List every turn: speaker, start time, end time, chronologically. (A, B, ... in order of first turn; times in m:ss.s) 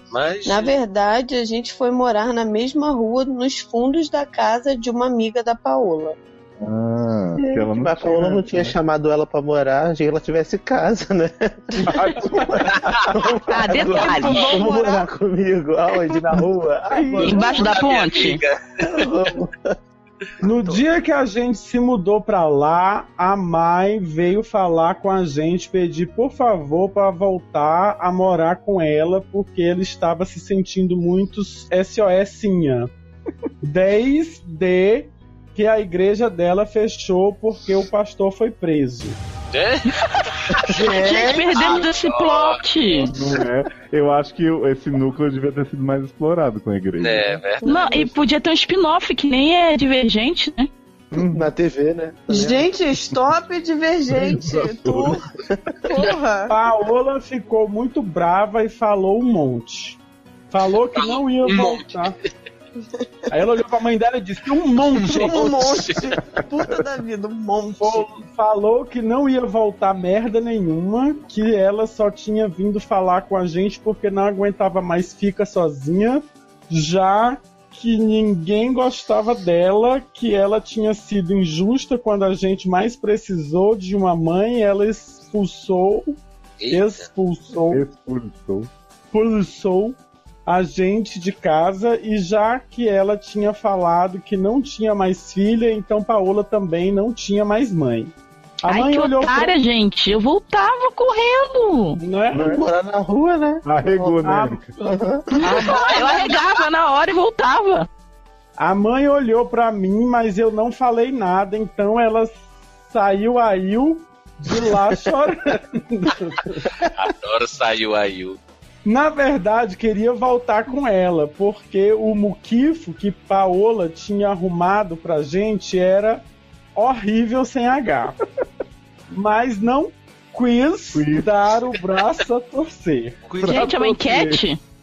0:00.1-0:00.7 A
0:00.4-0:06.2 B
0:06.6-0:08.8 C
0:07.6-0:17.5 D
0:11.9-0:12.8 C
0:13.5-0:14.4 E
0:13.8-0:15.0 B
0:16.9-0:17.8 F
0:17.2-0:18.4 E
0:17.3-0:19.1 A
0:18.8-0:19.7 D
0:20.4-0:32.9 F
0:33.6-0:39.2 F
0:39.5-0:39.9 A
0:40.5-0:40.8 A
0:40.8-0:43.1 E
0:41.5-0:43.1 A
0:43.0-0:47.4 C
0:47.0-0:47.6 A
0:47.6-0:50.7 E
0:51.1-0:51.5 C
0:51.1-0:52.6 D
0:52.3-0:55.1 G
0:54.1-0:55.2 C
0:56.0-0:56.5 G
0:56.0-0:56.5 B
0:56.5-1:00.0 F
1:00.5-1:02.1 F
1:00.9-1:02.1 A
1:03.3-1:05.5 F
1:05.2-1:08.0 G
1:05.2-1:06.1 A
1:05.2-1:05.9 B
1:07.8-1:27.8 F
1:26.6-1:27.1 A
1:27.7-1:28.7 C
1:29.1-1:39.6 F
1:38.7-1:42.0 E
1:42.0-1:42.6 F
1:42.3-1:42.6 C
1:42.5-1:43.6 D
1:43.6-1:44.7 C
1:44.0-1:44.6 F
1:44.8-1:45.3 D
1:45.4-1:47.9 E
1:45.4-1:46.6 F
1:48.6-1:56.7 F
1:56.8-1:58.4 A
1:58.8-2:08.2 F
2:09.1-2:13.2 F
2:10.9-2:11.4 C
2:13.4-2:14.4 C
2:13.4-2:14.6 E